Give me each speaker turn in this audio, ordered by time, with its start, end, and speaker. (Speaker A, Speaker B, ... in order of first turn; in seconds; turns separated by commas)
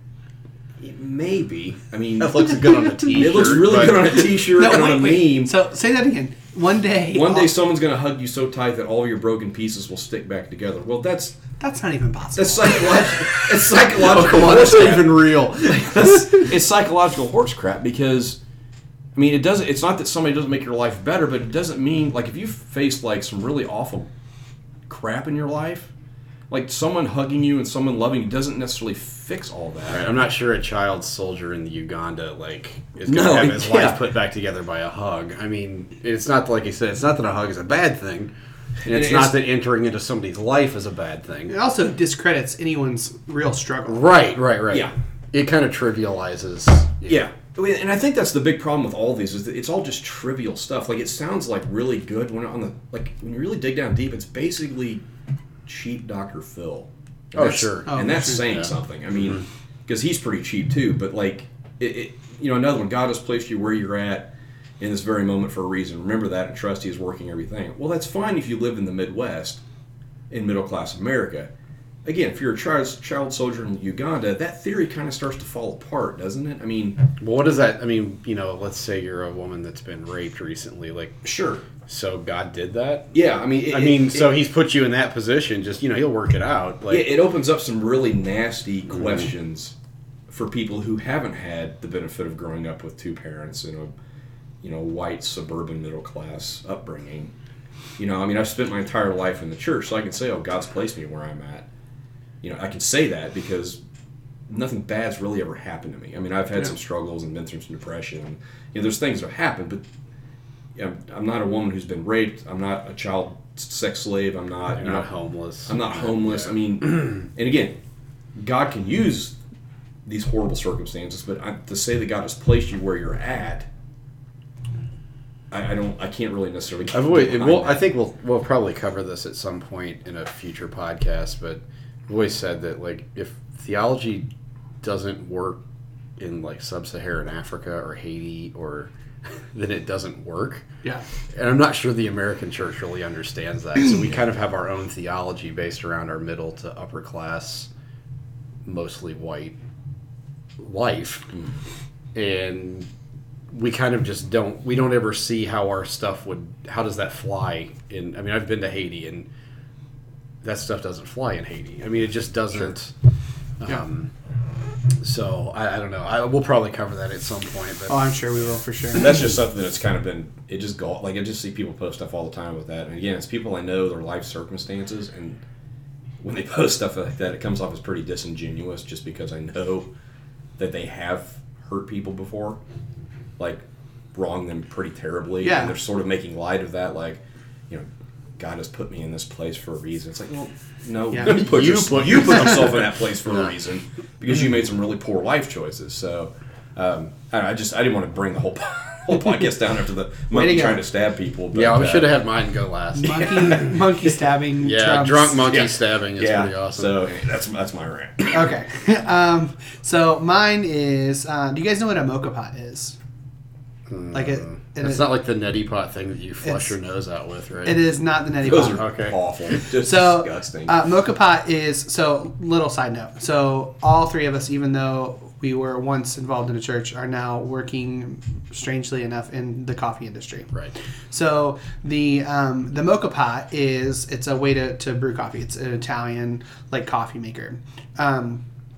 Speaker A: 0.8-5.5, Speaker B: 2.2-4.2, Speaker C: 4.6-7.5, Speaker A: 7.1-11.4, Speaker C: 11.6-12.8, Speaker A: 12.4-18.4, Speaker B: 13.2-16.5, Speaker A: 19.1-24.1, Speaker A: 24.9-25.9, Speaker A: 26.5-30.1, Speaker B: 29.9-38.3, Speaker A: 33.1-34.0, Speaker A: 38.9-39.4, Speaker B: 38.9-41.5, Speaker C: 41.5-44.1, Speaker B: 43.9-47.2, Speaker A: 47.1-55.0, Speaker A: 55.7-69.6, Speaker B: 57.4-58.7, Speaker C: 57.9-58.5, Speaker A: 70.3-71.5, Speaker A: 72.0-77.0, Speaker B: 77.2-81.2, Speaker A: 81.2-81.6, Speaker B: 81.8-83.2, Speaker A: 83.1-84.4, Speaker B: 83.7-87.2, Speaker A: 86.9-89.7, Speaker A: 90.3-93.9, Speaker A: 94.6-97.3, Speaker A: 98.0-101.7, Speaker A: 102.4-103.8, Speaker A: 104.5-109.8, Speaker A: 110.8-115.1, Speaker B: 114.8-116.6, Speaker A: 115.7-117.8, Speaker A: 118.4-119.4, Speaker A: 120.1-123.7, Speaker A: 125.5-127.8, Speaker B: 126.9-134.3, Speaker B: 134.8-135.6, Speaker B: 136.2-140.7, Speaker B: 141.3-147.7, Speaker B: 148.7-149.6, Speaker B: 150.6-151.3, Speaker B: 152.1-152.9, Speaker B: 153.5-159.3, Speaker B: 160.4-162.9, Speaker B: 163.6-164.1, Speaker B: 165.0-168.1, Speaker C: 167.9-169.3, Speaker A: 168.9-175.4, Speaker A: 176.2-179.9, Speaker A: 180.6-182.6, Speaker A: 183.4-183.6, Speaker A: 184.2-202.2, Speaker C: 185.4-185.7, Speaker C: 191.1-191.4, Speaker B: 191.2-193.5, Speaker C: 200.3-200.8, Speaker B: 201.5-203.6, Speaker C: 203.0-205.4, Speaker A: 203.2-203.6, Speaker B: 204.6-207.1, Speaker A: 205.5-208.5, Speaker C: 208.3-213.0, Speaker B: 213.9-217.8, Speaker C: 214.1-215.1, Speaker C: 216.4-216.7, Speaker C: 217.7-218.8, Speaker A: 218.4-220.8, Speaker B: 218.6-219.2, Speaker C: 219.8-230.5, Speaker C: 231.1-238.4